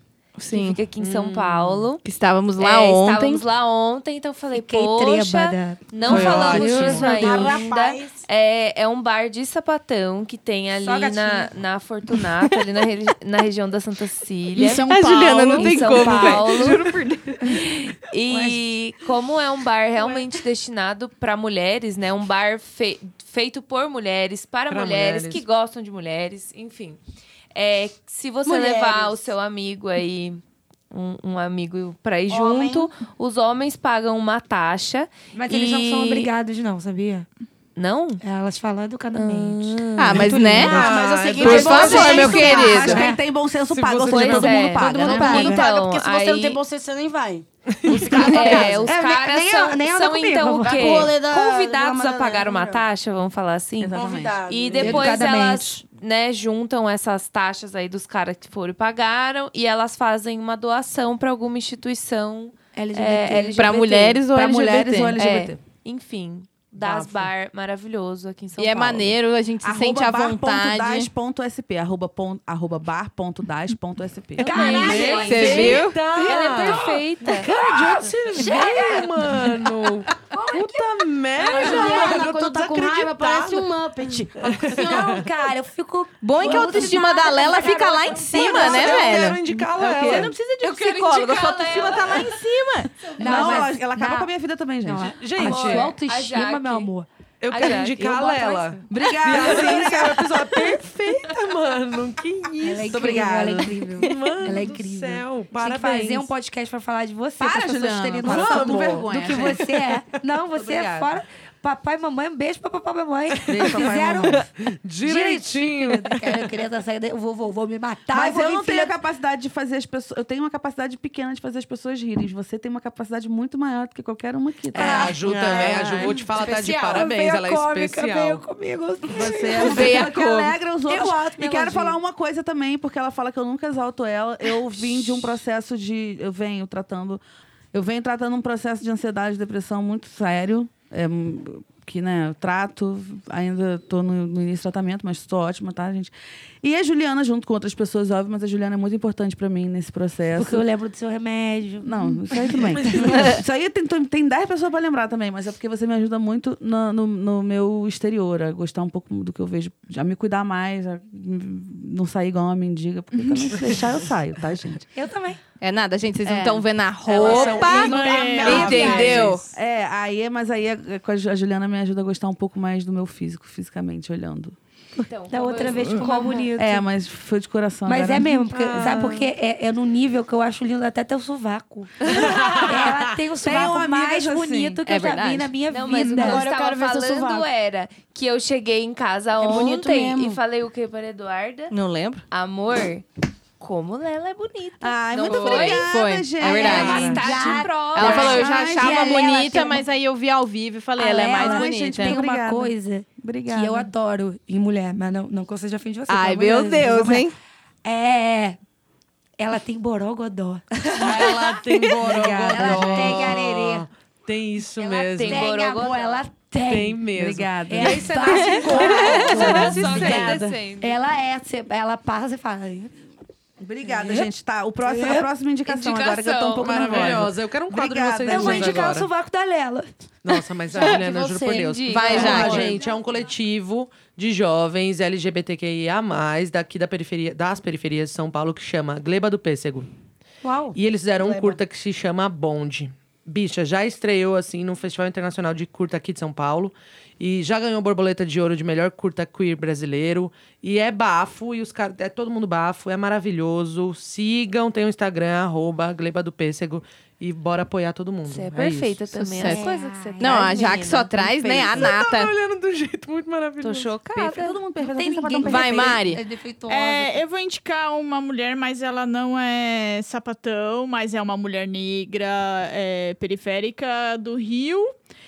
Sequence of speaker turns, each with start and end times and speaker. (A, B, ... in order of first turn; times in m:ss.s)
0:00.4-0:00.8 A
0:00.5-0:02.0 B
0:01.0-0:01.9 C
0:02.0-0:03.4 A
0:02.6-0:16.9 B
0:04.5-0:07.6 D
0:06.0-0:07.3 C
0:06.8-0:08.2 E
0:10.8-0:11.5 D
0:14.6-0:17.4 A
0:14.6-0:16.2 F
0:15.9-0:16.4 G
0:17.4-0:27.0 B
0:18.3-0:18.6 D
0:24.7-0:25.4 C
0:27.5-0:36.3 B
0:28.4-0:29.3 E
0:32.3-0:32.9 E
0:35.3-0:37.3 D
0:37.8-0:38.2 B
0:38.2-0:43.2 D
0:39.1-0:40.3 B
0:40.0-0:43.0 A
0:40.3-0:43.0 C
0:41.2-0:41.7 F
0:41.4-0:45.4 G
0:41.8-0:42.9 B
0:43.7-0:45.4 C
0:44.0-0:46.6 B
0:44.4-0:45.6 D
0:44.8-0:48.9 E
0:47.7-0:48.8 C
0:47.9-1:04.2 B
0:48.2-0:51.1 D
0:48.4-0:48.7 G
0:50.6-0:52.9 E
0:53.8-0:54.4 G
0:54.0-0:55.3 E
0:54.8-0:55.8 D
1:02.7-1:03.6 D
1:03.6-1:05.2 A
1:04.3-1:05.6 G
1:05.2-1:09.2 B
1:06.8-1:07.3 C
1:08.6-1:11.1 A
1:09.6-1:15.1 G
1:14.4-1:19.7 D
1:14.4-1:17.5 B
1:14.6-1:23.7 C
1:15.2-1:16.0 A
1:20.2-1:22.2 D
1:21.4-1:25.3 E
1:24.2-1:25.2 C
1:24.8-1:29.2 D
1:26.2-1:29.4 A
1:26.5-1:26.8 C
1:28.1-1:30.3 C
1:28.6-1:30.3 G
1:30.0-1:32.4 B
1:30.6-1:33.4 A
1:33.1-1:34.3 D
1:33.2-1:35.4 G
1:34.8-1:37.1 D
1:35.1-1:35.9 C
1:35.4-1:36.9 B
1:37.4-1:46.3 C
1:37.5-1:38.1 B
1:38.0-1:38.8 D
1:38.9-1:40.5 G
1:39.3-1:39.9 D
1:42.6-1:58.9 D
1:42.9-1:43.7 G
1:47.4-1:49.8 G
1:48.2-1:50.2 C
1:50.5-1:51.2 G
1:53.5-1:54.4 G
1:53.6-1:56.6 C
1:58.1-2:05.2 G
2:04.7-2:10.2 D
2:04.7-2:08.4 C
2:05.2-2:06.3 E
2:09.1-2:17.2 G
2:09.6-2:10.5 A
2:10.9-2:12.0 D
2:17.7-2:30.6 G
2:30.4-2:33.3 D
2:31.8-2:44.9 G
2:32.8-2:33.2 C
2:43.5-2:43.8 C
2:45.0-2:45.4 D
2:45.6-2:49.5 A
2:47.1-2:47.6 B
2:47.2-2:49.4 C
2:47.2-2:49.0 F
2:48.1-2:48.4 E
2:48.4-2:49.3 D
2:48.5-2:54.6 G
2:48.5-2:49.0 B
2:55.0-2:56.5 B
2:55.3-2:56.9 D
2:56.6-2:58.4 G
2:57.9-3:06.4 D
2:58.4-2:59.3 C
3:02.0-3:03.2 C
3:03.4-3:04.8 G
3:04.9-3:05.5 A
3:05.7-3:11.7 B
3:06.1-3:07.5 E
3:09.4-3:10.4 E
3:11.7-3:12.2 A
3:12.3-3:13.0 B
3:13.6-3:18.6 B
3:14.8-3:19.6 G
3:15.3-3:17.2 A
3:16.5-3:19.8 D
3:18.0-3:22.2 A
3:21.0-3:23.9 G
3:21.1-3:27.3 D
3:26.1-3:27.3 A
3:27.8-3:28.6 D
3:29.4-3:31.7 D
3:31.0-3:35.5 C
3:32.0-3:33.4 G
3:32.5-3:33.8 D
3:34.8-3:37.1 D
3:34.9-3:36.3 B
3:36.6-3:40.2 C
3:37.1-3:40.6 G
3:37.7-3:42.9 D
3:38.2-3:39.7 A
3:38.7-3:41.0 B
3:43.6-3:48.9 G
3:45.6-3:47.3 B
3:46.6-3:49.1 C
3:48.2-3:50.4 D
3:50.2-3:59.9 C
3:50.7-3:52.9 E
3:51.6-3:52.7 B
3:51.9-3:52.6 A
4:00.4-4:00.8 D
4:00.7-4:19.0 C
4:01.2-4:01.6 E
4:18.3-4:21.9 B
4:19.1-4:19.6 A
4:19.4-4:20.8 D
4:20.2-4:22.3 A
4:21.6-4:24.0 C
4:23.6-4:24.6 B
4:24.1-4:26.2 G
4:24.8-4:27.2 D
4:25.4-4:26.2 A
4:26.7-4:35.0 F